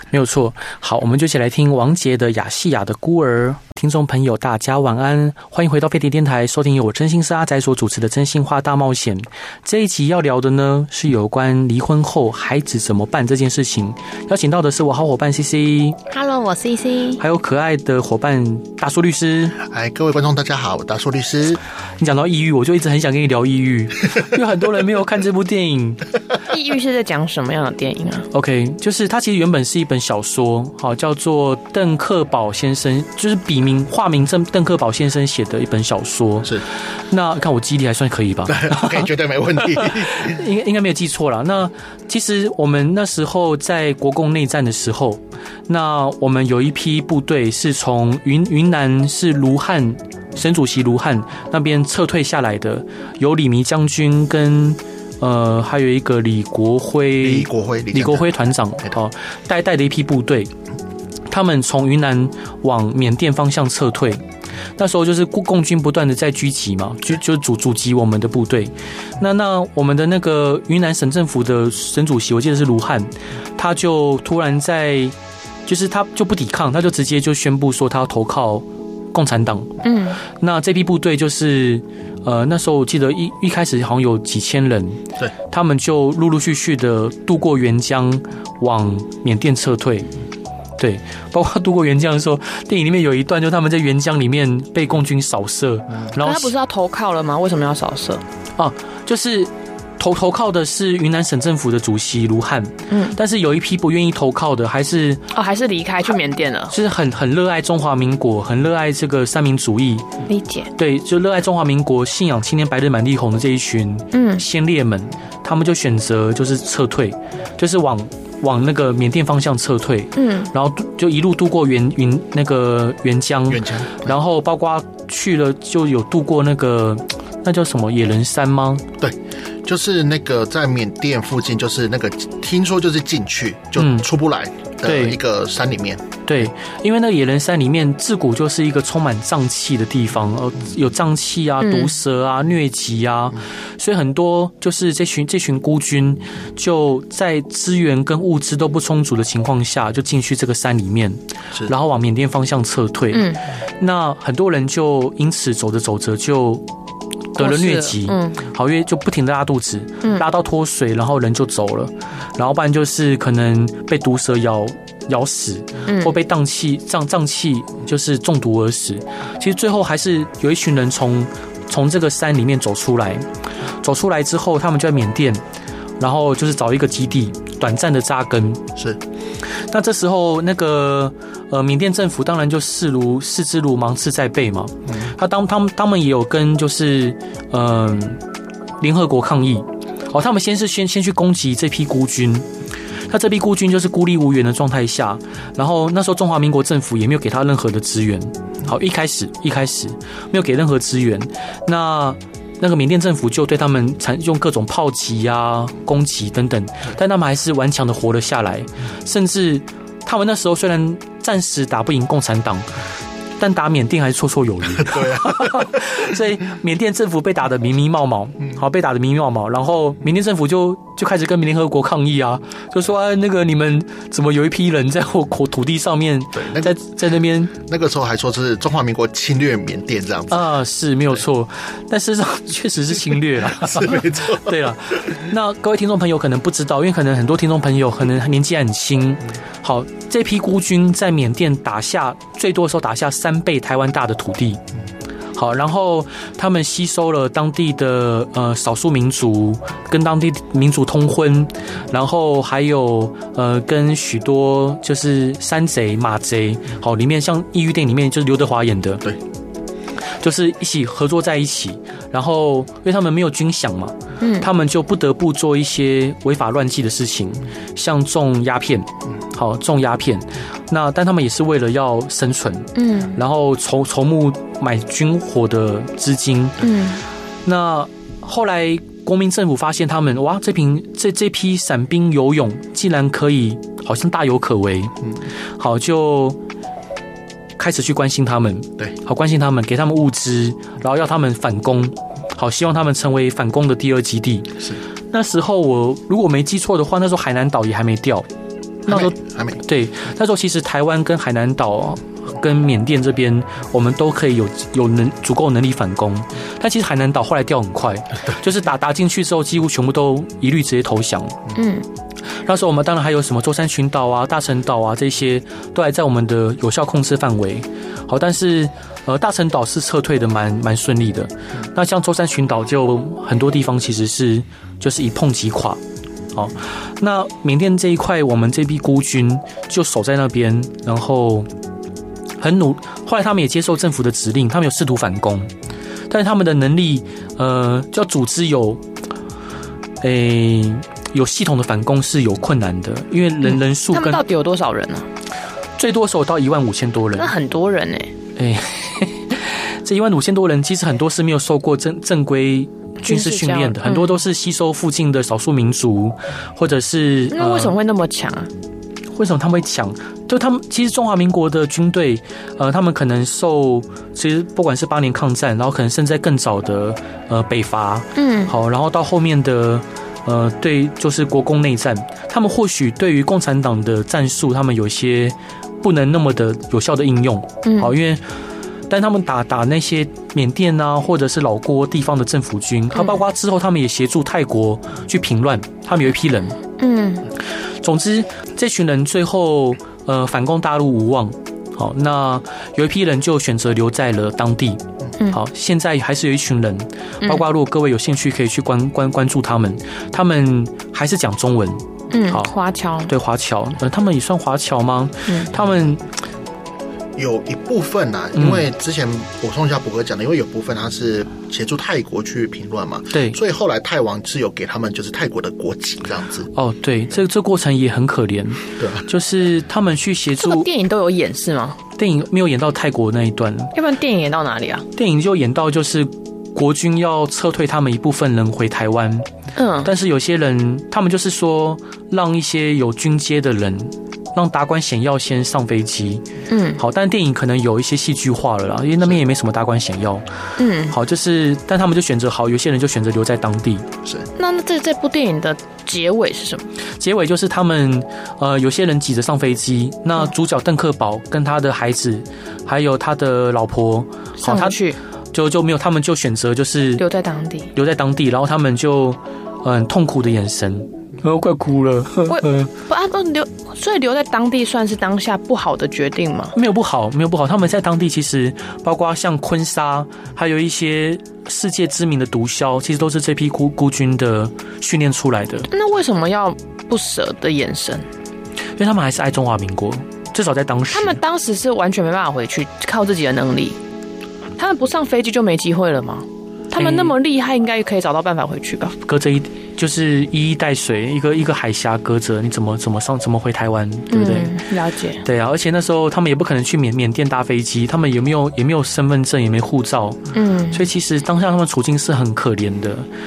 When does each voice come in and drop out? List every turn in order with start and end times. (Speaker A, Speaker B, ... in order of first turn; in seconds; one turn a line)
Speaker A: 0.1-16.0
Speaker B: 16.1-17.2
Speaker A: 17.2-19.6
Speaker C: 19.6-21.6
Speaker A: 22.0-26.0
Speaker B: 26.5-28.3
Speaker A: 28.3-60.5
Speaker C: 38.5-40.4
Speaker C: 57.2-58.3
Speaker A: 61.3-64.2
Speaker A: 64.8-75.1
Speaker A: 75.7-79.7
Speaker B: 79.8-80.2
Speaker A: 80.3-90.1
Speaker A: 90.8-96.5
Speaker B: 96.2-98.2
Speaker A: 98.6-105.2
Speaker B: 102.9-103.2
Speaker B: 105.3-106.7
Speaker A: 106.7-110.0
Speaker B: 110.3-110.7
Speaker A: 110.8-128.8
Speaker B: 114.1-114.4
Speaker B: 120.2-120.5
Speaker C: 123.5-124.1
Speaker C: 129.0-136.1
Speaker A: 133.8-134.1
Speaker A: 134.8-135.2
Speaker A: 136.3-156.6
Speaker B: 141.6-141.9
Speaker B: 153.1-153.4
Speaker A: 157.3-173.2
Speaker B: 157.4-158.4
Speaker B: 165.9-166.2
Speaker A: 173.8-175.4
Speaker A: 176.0-178.6
Speaker A: 179.7-188.2
Speaker A: 188.8-192.5
Speaker A: 193.1-212.7
Speaker A: 213.4-227.5
Speaker C: 214.8-215.8
Speaker C: 226.3-226.8
Speaker C: 227.5-230.5
Speaker A: 230.3-244.6
Speaker C: 233.5-234.6
Speaker A: 245.3-259.1
Speaker A: 260.2-276.6
Speaker B: 264.2-264.5
Speaker B: 272.8-273.2
Speaker B: 276.6-277.0
Speaker A: 277.4-284.9
Speaker A: 285.6-286.4
Speaker A: 287.6-298.2
Speaker A: 298.9-311.4
Speaker C: 298.9-299.6
Speaker B: 311.5-311.8
Speaker A: 312.4-325.8
Speaker A: 326.3-331.5
Speaker A: 332.4-335.5
Speaker A: 336.1-338.8
Speaker A: 340.0-344.2
Speaker B: 343.4-345.1
Speaker A: 345.8-347.3
Speaker B: 347.1-348.1
Speaker A: 348.4-357.7
Speaker B: 353.0-354.2
Speaker B: 357.3-358.5
Speaker A: 359.1-378.2
Speaker B: 368.1-368.5
Speaker B: 377.6-377.9
Speaker A: 378.9-386.6
Speaker B: 382.9-383.2
Speaker B: 386.8-387.3
Speaker A: 387.8-402.5
Speaker B: 402.1-403.1
Speaker A: 403.1-406.0
Speaker C: 407.2-416.5
Speaker A: 408.4-408.6
Speaker A: 413.1-413.4
Speaker A: 416.5-420.7
Speaker C: 418.8-419.0
Speaker B: 420.4-421.8
Speaker A: 422.0-423.7
Speaker B: 423.7-424.9
Speaker A: 424.9-429.3
Speaker B: 429.6-429.9
Speaker A: 429.8-436.2
Speaker B: 436.5-436.8
Speaker A: 436.8-440.2
Speaker B: 440.6-440.9
Speaker A: 440.9-443.9
Speaker B: 444.4-446.7
Speaker A: 447.0-454.8
Speaker B: 454.4-455.0
Speaker A: 455.3-457.0
Speaker B: 457.0-457.7
Speaker A: 457.7-462.7
Speaker B: 462.3-466.5
Speaker A: 466.5-475.7
Speaker B: 475.7-478.1
Speaker A: 478.8-481.2
Speaker B: 480.9-483.8
Speaker B: 484.6-488.9
Speaker A: 486.8-487.1
Speaker A: 489.0-494.6
Speaker B: 494.1-495.2
Speaker A: 495.2-500.2
Speaker B: 500.3-500.9
Speaker A: 500.7-503.1